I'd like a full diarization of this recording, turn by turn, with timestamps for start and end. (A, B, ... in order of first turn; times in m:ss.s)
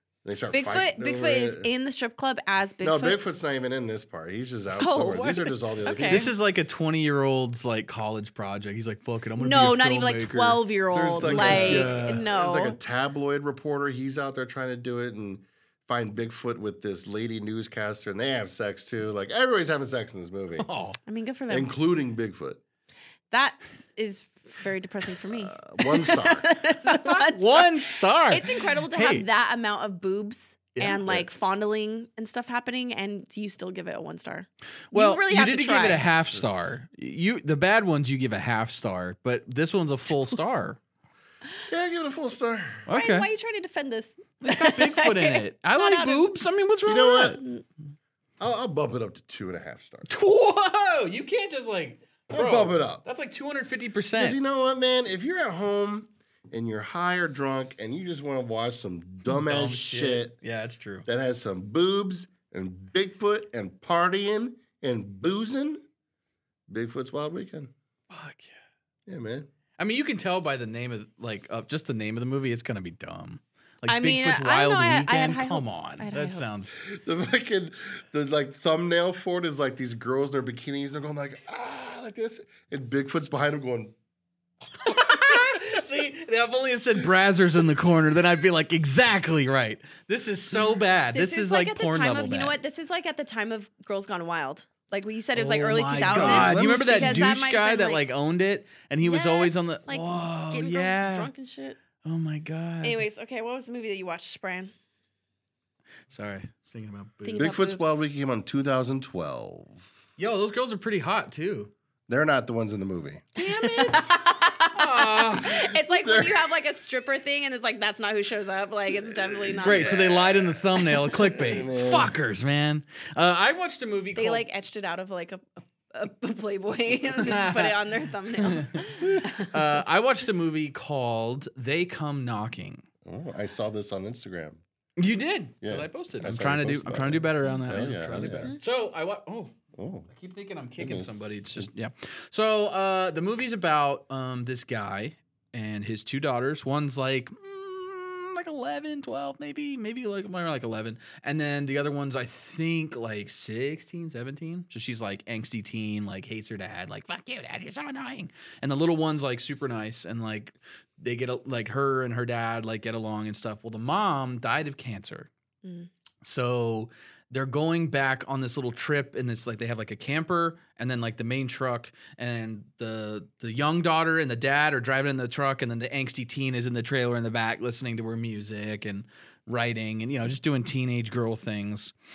0:00.2-0:01.7 A
0:00.5-0:03.2 B
0:02.8-0:06.3 A
0:04.8-0:06.3 B
0:06.0-0:10.6 C
0:09.4-0:12.8 B
0:10.9-0:20.7 A
0:11.2-0:12.2 C
0:20.6-0:21.0 C
0:21.0-0:21.7 B
0:21.5-0:22.6 A
0:23.3-0:36.1 B
0:25.3-0:26.5 A
0:26.8-0:29.2 C
0:30.8-0:31.0 C
0:34.9-0:40.8 C
0:36.2-0:36.5 A
0:41.7-0:42.8 A
0:42.9-0:43.3 C
0:42.9-0:46.3 B
0:44.4-0:47.4 C
0:46.8-0:47.4 A
0:47.2-0:47.6 B
0:48.4-0:50.1 A
0:50.1-0:54.4 C
0:52.3-0:53.0 A
0:54.2-1:00.3 A
0:59.3-1:01.1 C
1:01.0-1:05.8 A
1:06.7-1:07.7 A
1:08.1-1:08.6 C
1:09.0-1:09.5 A
1:09.8-1:16.8 C
1:13.9-1:16.7 B
1:16.8-1:23.9 A
1:24.8-1:32.5 C
1:31.1-1:38.0 B
1:35.3-1:41.3 C
1:36.1-1:37.2 A
1:39.0-1:41.8 B
1:42.0-1:43.0 C
1:42.8-1:44.7 B
1:46.1-1:47.5 C
1:47.2-1:48.0 B
1:47.4-1:49.8 A
1:50.2-1:51.7 C
1:52.1-1:53.3 A
1:53.4-1:54.2 C
1:53.4-2:00.1 B
1:54.7-1:55.7 C
1:55.9-1:56.5 A
1:59.0-2:02.2 A
1:59.6-2:04.4 C
2:04.1-2:09.6 B
2:07.2-2:07.8 C
2:08.4-2:12.8 C
2:13.0-2:14.6 A
2:15.0-2:19.5 C
2:15.6-2:18.5 A
2:19.7-2:20.1 A
2:20.1-2:45.3 C
2:20.8-2:21.7 A
2:46.2-3:01.9 C